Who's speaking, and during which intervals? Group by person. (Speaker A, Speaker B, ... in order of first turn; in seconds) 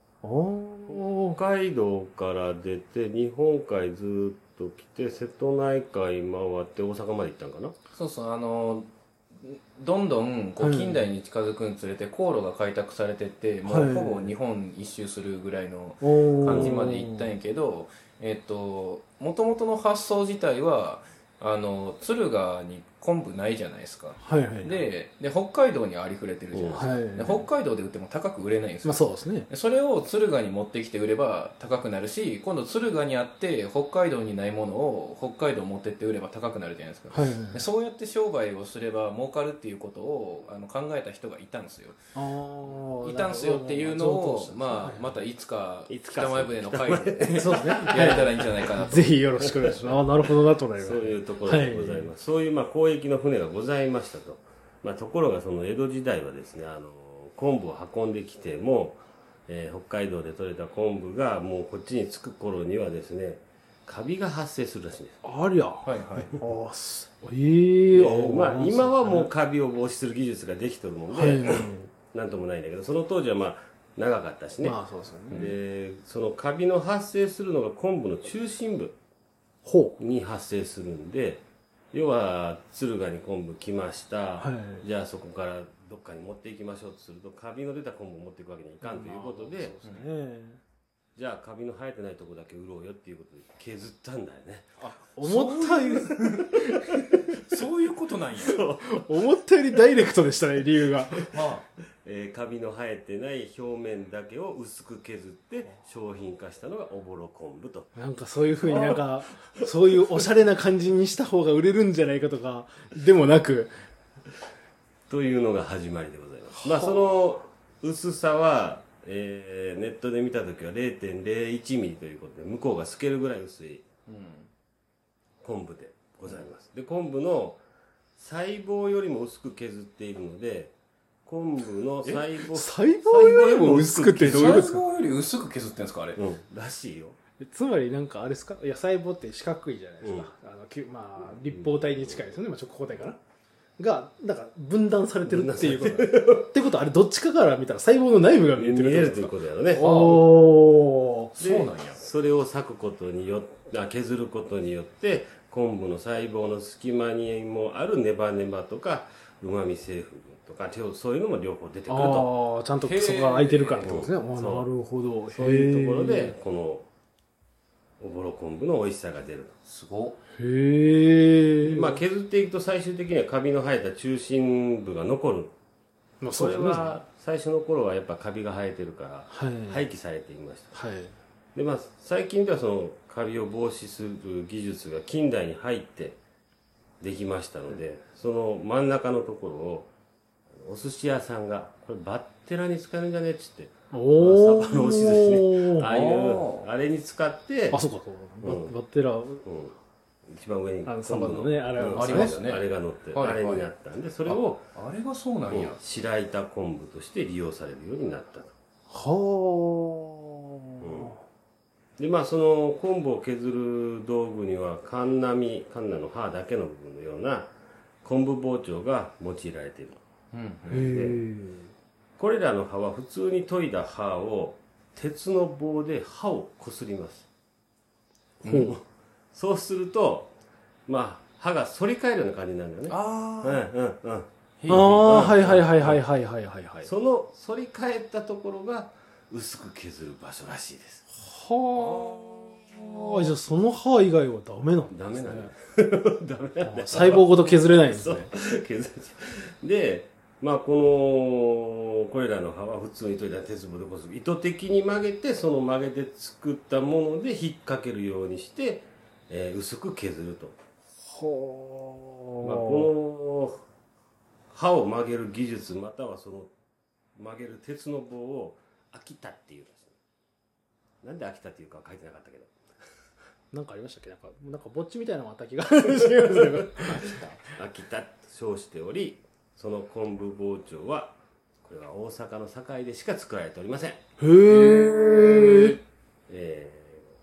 Speaker A: 0.2-1.4, 10.6-11.1, 13.6-14.2, 16.0-17.3, 24.2-24.9, 26.7-27.5, 28.8-29.5, 37.1-37.6, 42.1-45.2, 47.3-52.1, 65.2-69.3, 71.1-71.9, 74.6-75.5, 79.6-80.0, 84.4-84.9, 88.8-90.6, 94.8-97.3, 98.8-101.3, 107.9-113.7, 116.5-117.1, 132.5-134.9, 137.4-143.2, 143.8-151.4, 161.9-166.3, 170.3-172.0, 176.2-176.9, 179.3-179.9, 180.7-181.1, 193.9-195.9, 197.7-199.4, 200.8-202.4, 208.9-211.2, 220.7-221.7, 228.4-228.7, 234.7-236.9, 241.1-245.5, 246.6-248.3, 261.0-262.9, 273.5-277.6, 284.2-285.8
Speaker B: 0.9-7.7, 16.5-16.8, 26.5-26.8, 45.9-48.7, 49.7-50.0, 50.7-65.2, 67.9-74.8, 75.3-78.9, 80.0-81.4, 81.9-89.8, 91.2-94.7, 98.4-99.4, 102.0-107.9, 108.6-109.1, 115.1-123.8, 125.4-127.6, 128.2-130.7, 131.2-134.7, 136.2-137.2, 140.0-140.3, 141.4-142.3, 145.2-146.5, 148.6-149.8, 151.4-162.3, 163.8-164.7, 165.3-166.9, 168.0-169.5, 171.6-175.5, 176.3-180.7, 181.5-186.2, 187.0-189.9, 190.6-197.8, 198.4-198.7, 199.4-199.7, 200.3-204.6, 205.5-208.5, 210.8-211.1, 212.0-217.5, 218.0-220.0, 220.8-221.2, 222.2-227.3, 228.5-228.8, 229.3-230.3, 230.9-234.3, 235.0-236.0, 236.8-241.0, 244.9-260.6, 262.4-263.6, 264.5-266.5, 267.2-269.9, 271.0-272.5, 277.2-284.0, 286.3-287.1
Speaker C: 7.9-42.0, 42.7-49.1, 65.8-66.3, 95.1-96.5, 97.3-98.7, 101.3-101.6, 124.1-124.5, 134.2-136.2, 149.8-150.3, 151.3-152.0, 162.8-164.0, 169.6-170.2, 195.9-196.7, 201.9-203.7, 204.2-205.8, 220.3-220.9, 228.4-228.8, 232.9-233.7, 234.6-235.4, 241.7-243.3, 246.9-247.6, 284.5-285.7